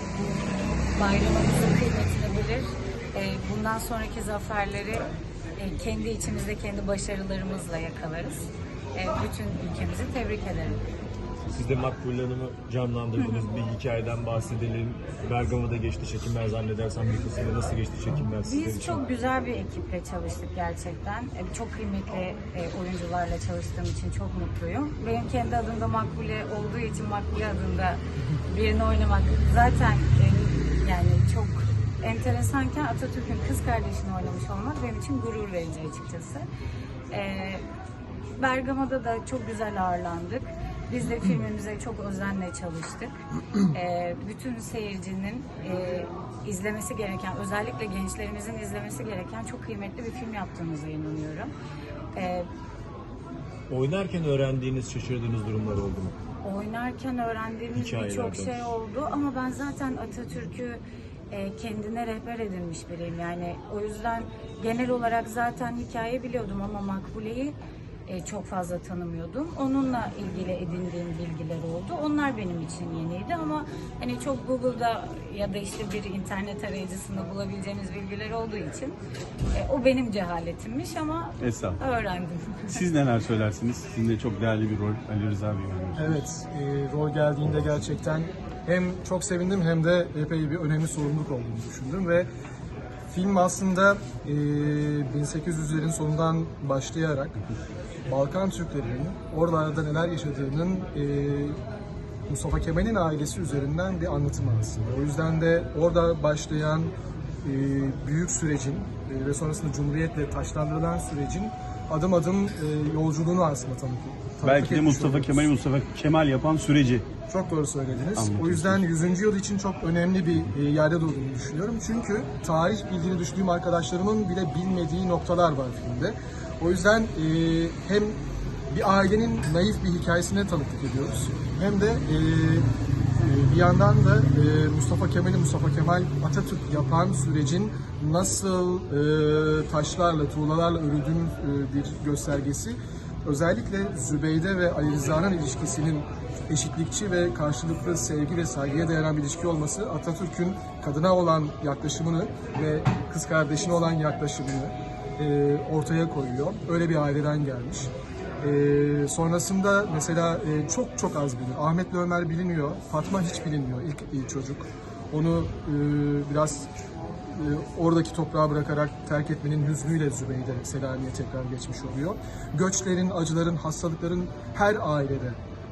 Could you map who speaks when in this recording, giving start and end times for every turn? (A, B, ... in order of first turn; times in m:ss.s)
0:00.2-0:05.0 A
0:05.6-0:10.8 A
0:11.5-0:19.0 B
0:13.2-0:13.4 A
0:18.4-0:36.4 A
0:37.1-0:37.6 A
0:38.4-0:43.2 A
0:43.7-0:51.5 A
0:52.1-0:52.5 A
0:53.7-0:56.2 B
0:56.4-1:07.6 A
0:57.8-0:58.7 B
1:08.1-1:19.0 A
1:19.5-1:22.8 A
1:21.4-1:21.8 C
1:22.7-1:26.2 C
1:26.0-1:32.3 D
1:33.1-1:37.4 D
1:38.1-1:41.6 D
1:42.3-1:46.9 D
1:47.4-1:55.5 D
1:54.4-1:57.1 C
1:57.3-2:08.2 D
1:58.2-1:58.8 C
2:08.7-2:12.7 D
2:13.2-2:46.7 D
2:47.3-2:55.4 D